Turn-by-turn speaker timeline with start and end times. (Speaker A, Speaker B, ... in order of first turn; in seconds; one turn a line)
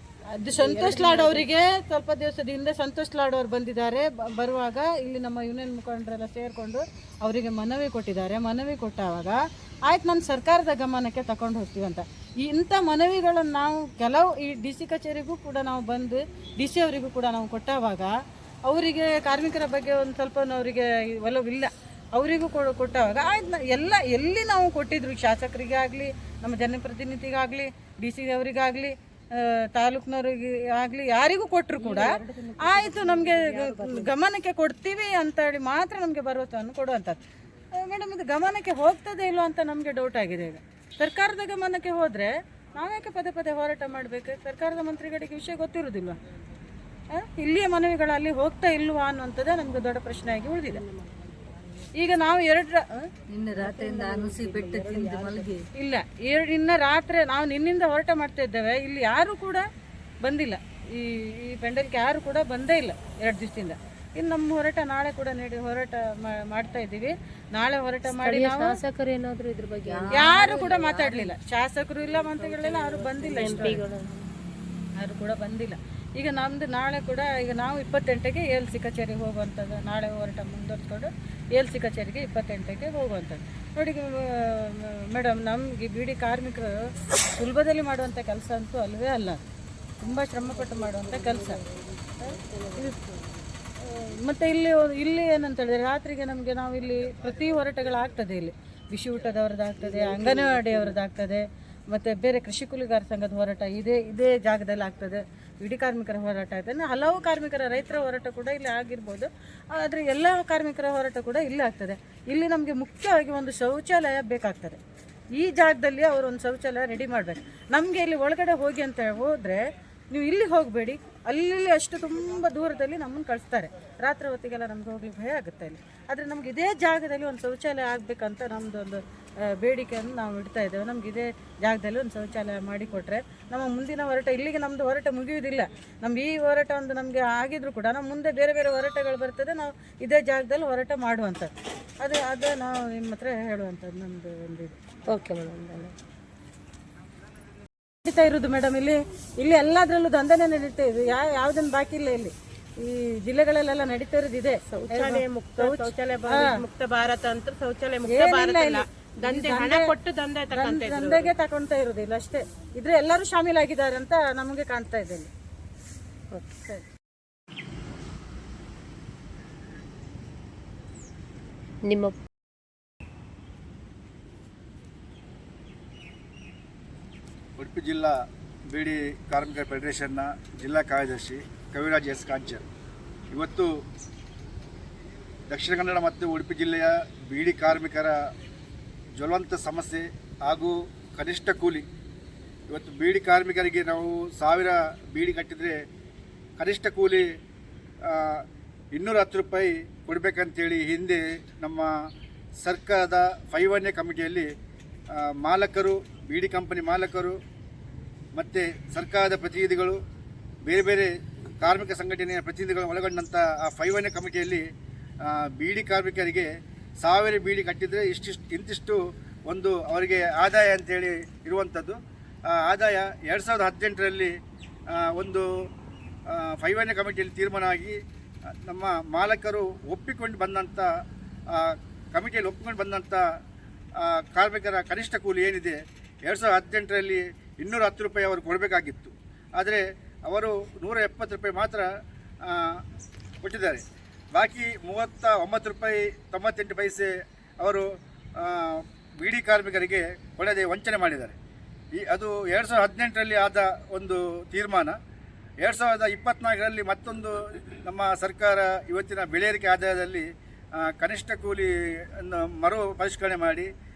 Speaker A: 0.3-18.1
Speaker B: 0.6-1.4
Speaker A: 18.7-37.2
Speaker B: 31.8-34.1
Speaker A: 37.7-46.2
Speaker A: 47.1-50.8
Speaker B: 50.4-51.9
Speaker A: 51.9-53.1
Speaker B: 53.3-55.6
Speaker A: 55.7-59.6
Speaker A: 60.2-68.8
Speaker C: 68.1-71.0
Speaker B: 69.9-71.3
Speaker A: 70.1-73.8
Speaker B: 72.2-73.9
Speaker C: 72.6-74.2
Speaker A: 75.0-86.8
Speaker A: 87.3-89.4
Speaker A: 90.0-91.6
Speaker B: 90.5-93.4
Speaker A: 92.2-93.0
Speaker A: 93.9-114.8
Speaker B: 99.8-101.0
Speaker A: 115.3-144.8
Speaker C: 145.1-145.9
Speaker A: 148.0-156.6
Speaker D: 154.7-161.3
Speaker A: 158.1-159.9
Speaker A: 160.5-165.3
Speaker C: 171.8-172.2
Speaker E: 177.6-182.7
Speaker E: 183.3-183.8
Speaker E: 185.5-188.3
Speaker E: 189.2-191.8
Speaker E: 192.7-195.8
Speaker E: 196.6-197.3
Speaker E: 198.0-201.9
Speaker E: 202.6-204.5
Speaker E: 205.1-207.4
Speaker E: 208.3-210.0
Speaker E: 210.7-214.7
Speaker E: 215.2-216.5
Speaker E: 217.0-222.0
Speaker E: 222.5-224.3
Speaker E: 224.9-225.5
Speaker E: 226.3-228.0
Speaker E: 228.7-230.9
Speaker E: 231.5-233.2
Speaker E: 234.0-241.9
Speaker E: 242.4-242.8
Speaker E: 243.4-243.8
Speaker E: 244.3-251.3
Speaker E: 252.0-255.0
Speaker E: 255.6-263.7